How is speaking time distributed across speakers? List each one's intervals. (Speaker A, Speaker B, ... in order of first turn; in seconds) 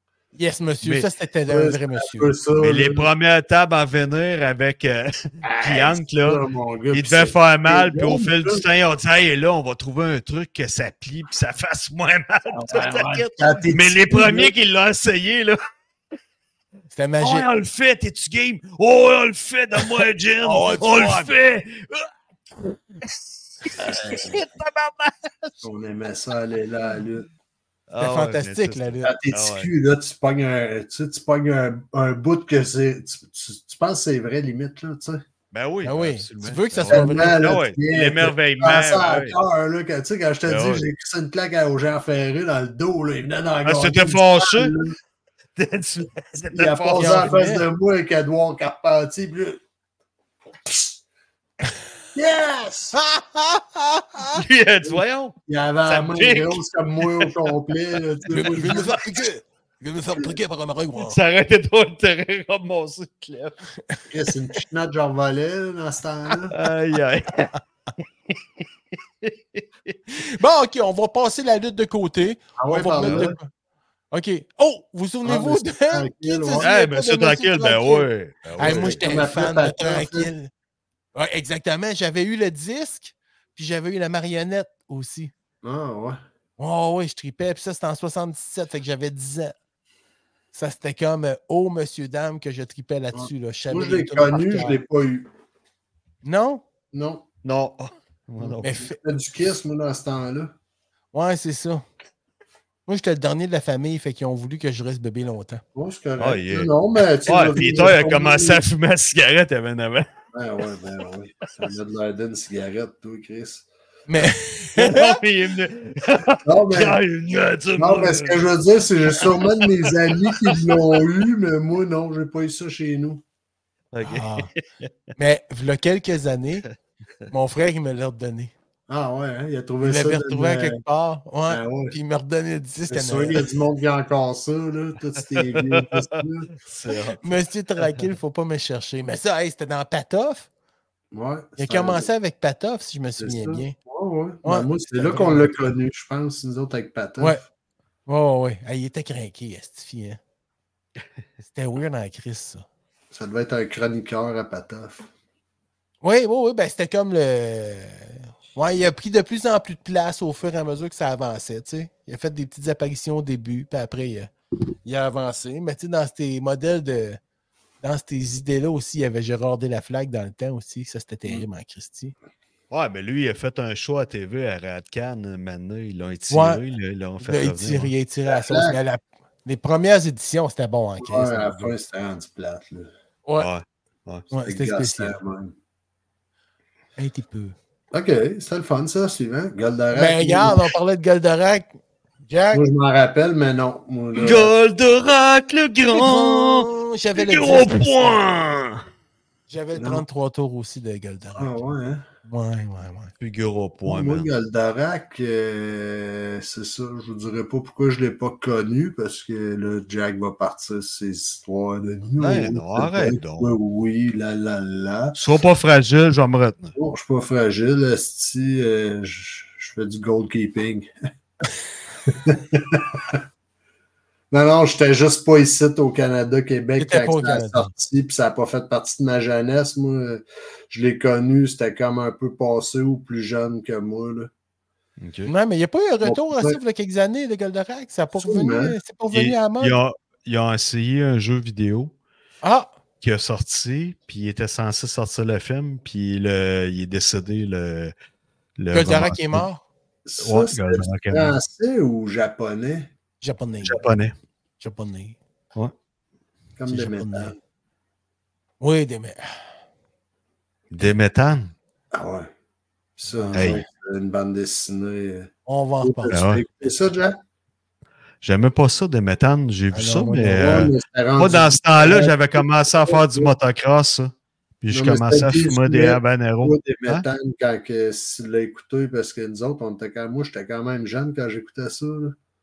Speaker A: 0.3-2.3, 16.9-17.5, 20.4-21.3, 28.0-29.1, 35.8-37.4, 46.9-47.6, 53.0-54.4, 58.3-61.2, 70.1-73.5, 74.1-80.5, 81.1-85.3, 86.6-89.5, 90.5-94.8, 96.2-96.6, 98.6-99.0, 101.1-101.8, 102.9-105.6, 114.1-115.2, 124.0-124.5, 125.2-126.6, 127.3-128.5, 129.8-133.4, 137.2-140.5, 141.6-143.7, 144.4-145.5, 148.1-150.2, 151.4-152.6, 156.0-164.3, 164.8-167.2, 167.8-172.1, 176.3-176.6, 177.2-181.7, 184.3-185.2, 187.0-187.5, 189.9-191.8, 192.3-192.6, 195.9-198.2, 199.5-201.5, 202.2-203.1, 226.8-227.7, 235.3-239.8, 242.4-242.7, 248.7-249.6, 253.2-253.8, 254.6-255.2, 256.7-257.4, 258.6-259.2, 263.1-263.5, 265.5-266.2, 269.7-270.7
Speaker B: 0.8-1.1, 2.6-15.6, 17.2-22.1, 23.6-25.6, 27.9-29.7, 35.5-39.4, 40.5-40.9, 43.6-44.7, 45.5-47.3, 54.3-55.3, 55.9-56.6, 58.7-59.0, 61.0-63.5, 66.5-67.5, 69.2-69.6, 73.0-73.3, 76.6-79.0, 97.4-98.8, 106.2-106.7, 107.2-110.1, 114.8-118.4, 119.2-120.8, 123.9-124.9, 135.5-135.8, 136.6-137.2, 172.7-177.9, 183.4-184.3, 194.2-198.8, 203.2-204.3, 212.2-213.5, 215.1-216.7, 235.0-235.3, 239.1-241.9, 243.0-247.9, 248.6-249.4, 250.2-251.3, 253.6-254.1, 260.7-261.5, 263.3-263.6, 266.1-266.4, 268.2-277.0
Speaker C: 1.5-3.0, 5.4-8.6, 12.5-14.5, 23.8-24.4, 25.6-27.3, 29.0-35.2, 36.9-45.0, 46.5-49.6, 50.6-51.0, 52.1-53.0, 54.8-58.9, 64.1-66.5, 72.6-73.4, 75.2-76.7, 78.6-80.3, 85.6-86.2, 93.1-95.3, 96.9-97.2, 98.4-100.5, 105.7-108.6, 110.3-113.7, 116.4-117.0, 117.7-123.2, 128.9-130.8, 131.5-131.9, 132.9-136.5, 141.1-142.1, 143.2-147.4, 153.1-155.1, 178.3-178.8, 181.0-182.9, 184.4-185.5, 187.9-190.6, 192.5-194.5, 199.7-200.0, 201.3-202.0, 203.8-215.2, 216.8-220.9, 222.1-223.2, 224.3-234.3, 236.0-236.6, 238.2-238.7, 250.1-252.9, 256.6-257.4, 261.9-262.3, 263.0-265.3, 265.8-267.1, 270.4-273.3, 274.7-282.1